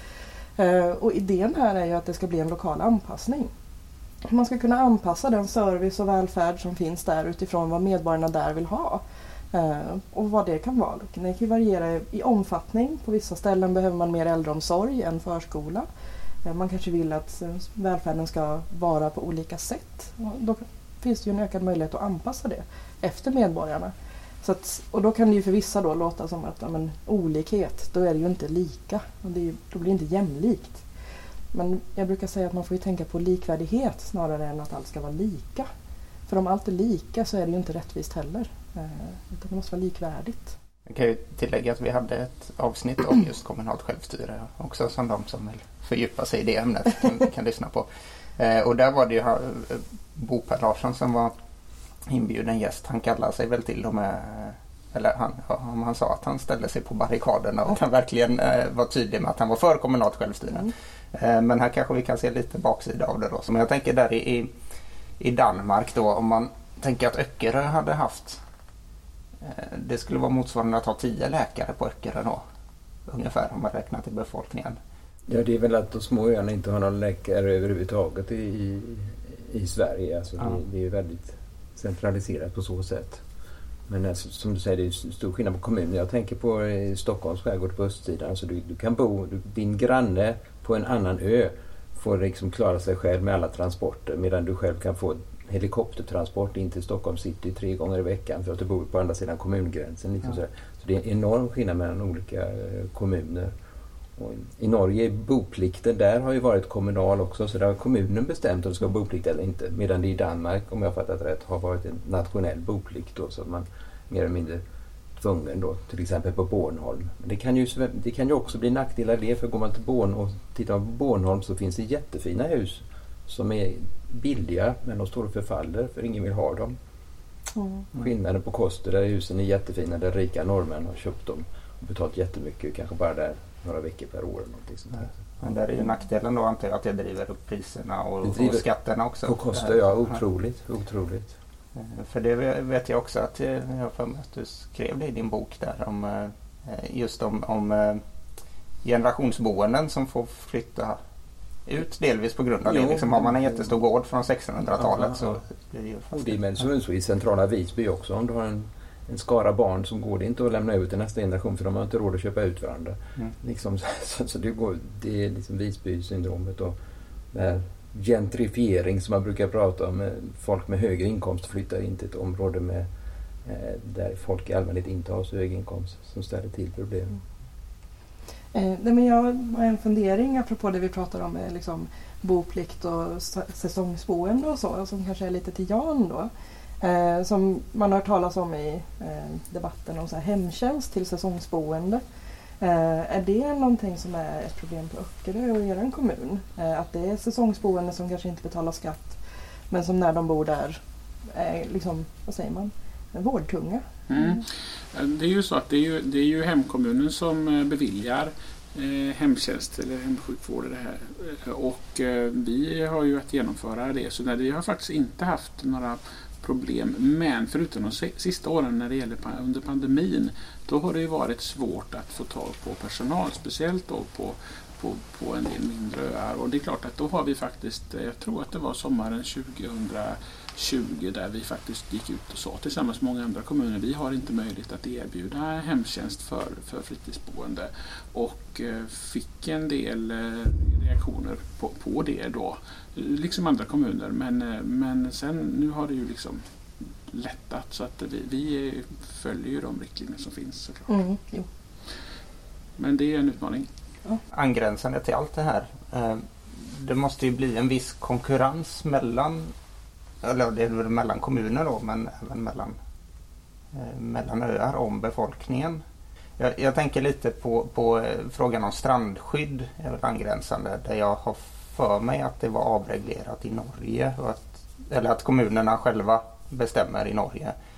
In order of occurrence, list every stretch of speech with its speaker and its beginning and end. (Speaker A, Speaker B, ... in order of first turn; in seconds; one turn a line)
Speaker A: 0.6-3.5
Speaker A: 4.3-15.8
Speaker A: 16.4-30.8
Speaker A: 31.5-35.7
Speaker A: 36.3-40.5
Speaker B: 40.9-51.3
Speaker B: 52.1-64.5
Speaker B: 65.2-68.4
Speaker B: 69.4-72.4
Speaker B: 73.1-74.8
Speaker C: 75.3-83.2
Speaker C: 83.9-103.5
Speaker C: 104.2-114.6
Speaker C: 115.2-126.8
Speaker A: 127.5-127.8
Speaker C: 127.9-135.1
Speaker B: 135.4-140.1
Speaker C: 138.2-138.6
Speaker C: 139.2-141.3
Speaker B: 141.7-148.0
Speaker B: 148.8-151.0
Speaker B: 151.7-156.4
Speaker C: 152.6-153.7
Speaker C: 154.7-155.4
Speaker C: 156.1-166.8
Speaker C: 167.3-172.9
Speaker C: 173.4-177.2
Speaker A: 178.5-186.3
Speaker A: 186.8-192.0
Speaker A: 192.6-199.2
Speaker A: 199.7-200.8
Speaker A: 201.3-204.4
Speaker D: 204.1-246.4
Speaker D: 247.1-250.9
Speaker A: 250.9-251.5
Speaker D: 252.8-253.7
Speaker B: 254.3-259.5
Speaker B: 260.2-262.8
Speaker B: 263.7-265.8
Speaker B: 266.4-277.5